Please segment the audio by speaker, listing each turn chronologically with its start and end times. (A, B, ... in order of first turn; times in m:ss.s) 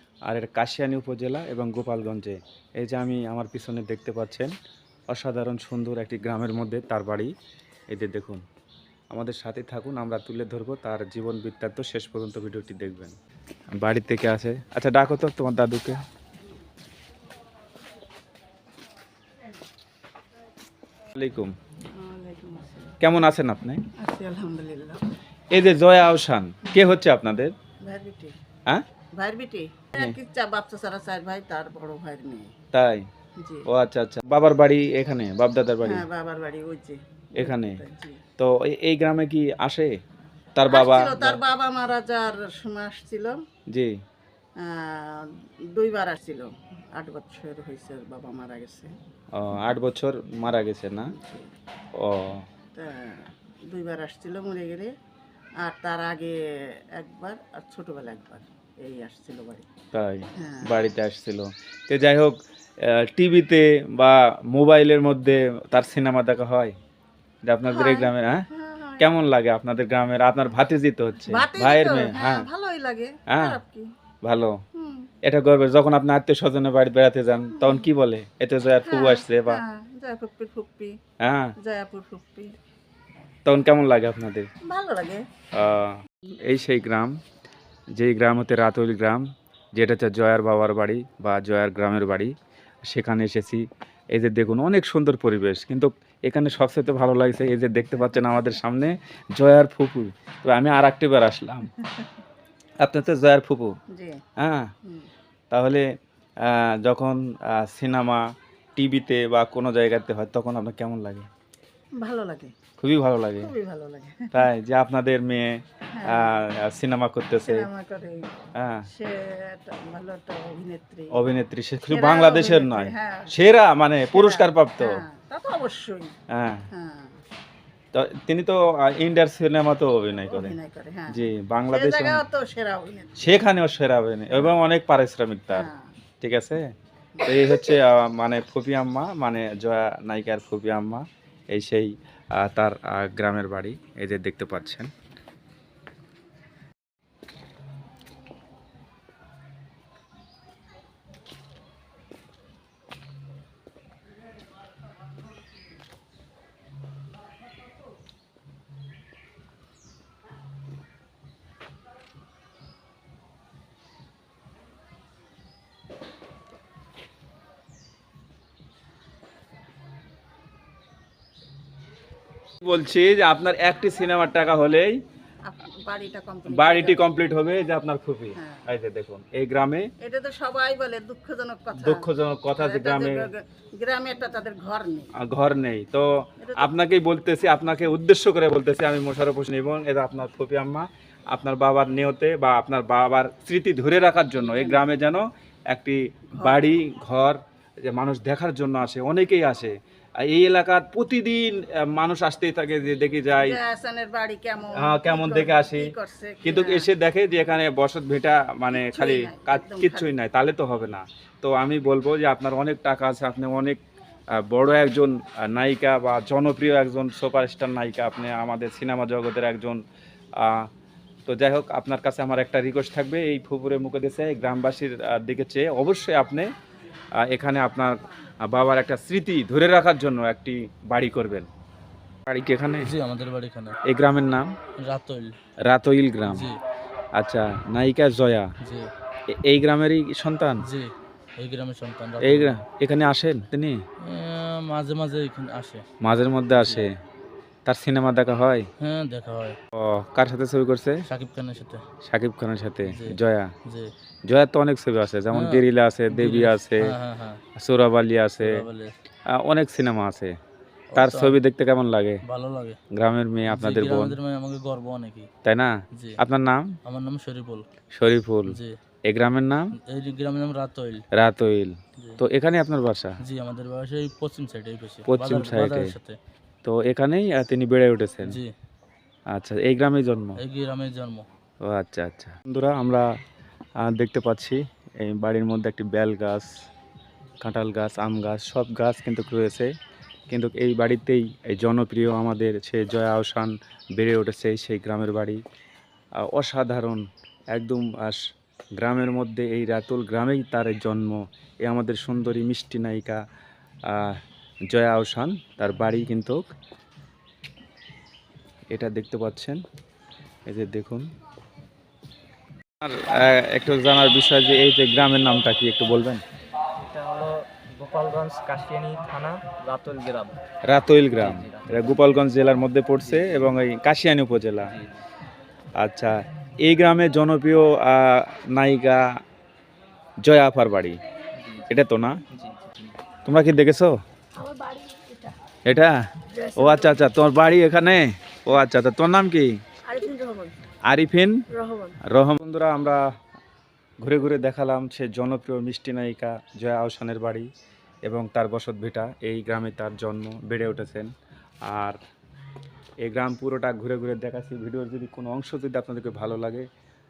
0:00.3-0:04.5 A
0:05.1-0:07.3 A
0:07.9-0:08.4 A
0:09.1-0:13.2 A
0:13.8-0:16.0 A
0:21.1-0:21.5 A
0:21.9-0:23.0 B
0:23.0-0:23.8 A
0:24.0-0:25.0 B
0:25.5-0:27.5 A
0:26.6-0:26.9 B
0:27.9-0:28.4 B
0:29.2-0:32.5 B
0:32.7-0:33.1 A
0:33.4-0:33.7 B
0:33.7-0:36.0 A
0:35.8-0:38.2 B
0:37.4-0:37.8 A
0:38.4-0:40.0 A
0:40.6-0:41.4 A
0:40.7-0:43.4 B
0:44.6-0:48.9 B
0:49.3-0:51.1 A
0:51.1-0:51.6 B
0:51.9-0:52.5 A
0:52.7-0:54.9 B
0:55.6-0:59.7 B
0:59.9-1:06.7 A
1:00.4-1:00.9 B
1:07.5-1:08.5 A
1:07.7-1:09.1 B
1:09.0-1:12.5 A
1:11.2-1:13.9 B
1:13.3-1:13.6 A
1:14.2-1:14.6 A
1:14.8-1:15.1 B
1:15.2-1:19.6 A
1:17.5-1:17.9 B
1:18.9-1:21.0 B
1:21.2-1:21.5 A
1:21.6-1:22.5 B
1:23.5-1:24.5 A
1:24.7-1:25.2 B
1:25.5-1:27.2 A
1:28.0-1:32.3 A
1:32.8-1:41.8 A
1:41.8-1:42.2 B
1:42.8-1:43.7 A
1:43.9-1:44.2 B
1:44.4-1:44.7 A
1:45.5-1:45.9 A
1:46.4-1:48.2 A
1:48.8-1:51.3 A
1:52.0-1:52.5 B
1:52.8-1:53.5 A
1:53.4-1:54.5 B
1:54.3-1:57.7 A
1:56.0-1:56.4 B
1:57.4-1:58.2 B
1:58.6-1:58.9 A
1:58.9-2:01.2 B
2:01.1-2:05.0 A
2:01.9-2:03.3 B
2:04.1-2:06.1 B
2:06.3-2:06.7 A
2:06.7-2:07.2 B
2:07.9-2:10.6 A
2:10.3-2:11.2 B
2:11.1-2:12.2 A
2:11.7-2:13.3 B
2:13.2-2:15.7 A
2:15.5-2:15.9 B
2:16.2-2:16.7 A
2:17.2-2:17.8 B
2:17.2-2:24.9 A
2:52.6-2:55.0 A
2:55.4-2:57.2 B
2:56.5-2:59.9 A
2:58.4-2:58.6 B
3:00.0-3:05.1 B
3:01.8-3:03.3 A
3:05.2-3:23.6 A
3:06.4-3:06.7 B
3:14.4-3:15.0 B
3:16.3-3:16.6 B
3:23.4-3:26.9 B
3:24.7-3:25.9 A
3:26.4-3:33.8 A
3:28.7-3:30.1 B
3:34.3-3:39.8 A
3:40.4-3:40.7 A
3:41.3-3:46.5 A
3:47.2-3:51.5 A
3:52.3-3:52.9 A
3:52.8-3:53.8 C
3:53.9-3:54.5 A
3:54.8-3:55.3 C
3:55.7-3:56.5 A
3:56.2-3:56.6 C
3:57.2-3:58.5 A
3:58.6-3:58.9 C
3:59.3-4:00.6 A
4:00.6-4:02.6 C
4:02.2-4:03.8 A
4:04.0-4:05.8 C
4:06.0-4:07.0 A
4:06.5-4:06.9 C
4:07.7-4:08.7 A
4:08.8-4:09.6 C
4:09.8-4:11.0 A
4:11.1-4:11.8 C
4:12.0-4:13.5 A
4:12.8-4:13.9 C
4:14.3-4:17.0 A
4:15.3-4:17.4 C
4:17.6-4:18.6 A
4:18.4-4:18.9 C
4:19.3-4:20.3 A
4:20.9-4:21.4 C
4:21.0-4:22.2 A
4:22.2-4:22.8 C
4:22.9-4:24.2 A
4:23.5-4:25.3 C
4:25.4-4:26.8 A
4:25.9-4:26.2 C
4:26.8-4:27.6 C
4:27.9-4:29.8 A
4:28.5-4:28.8 C
4:29.8-4:31.0 C
4:31.1-4:33.2 A
4:33.2-4:36.2 C
4:35.1-4:35.9 A
4:36.6-4:38.4 A
4:38.2-4:38.5 C
4:39.3-4:40.4 A
4:40.4-4:41.3 C
4:41.6-4:43.1 A
4:43.8-4:46.5 A
4:47.4-4:49.7 A
4:50.3-4:55.4 A
4:56.2-5:03.2 A
5:03.9-5:06.4 A
5:08.7-5:09.6 A
5:10.5-5:11.1 A
5:12.8-5:16.2 A
5:16.8-5:20.4 D
5:20.6-5:24.8 A
5:21.4-5:21.7 D
5:25.8-5:29.2 A
5:30.2-5:31.0 A
5:31.6-5:32.2 A
5:32.4-5:32.7 D
5:33.2-5:34.0 A
5:34.4-5:35.0 B
5:35.7-5:39.5 A
5:36.4-5:37.0 B
5:39.9-5:40.5 B
5:40.9-5:41.4 A
5:41.5-5:41.9 B
5:42.0-5:43.1 A
5:44.0-5:47.5 A
5:48.0-5:51.1 A
5:51.7-5:52.0 A
5:53.0-5:56.7 A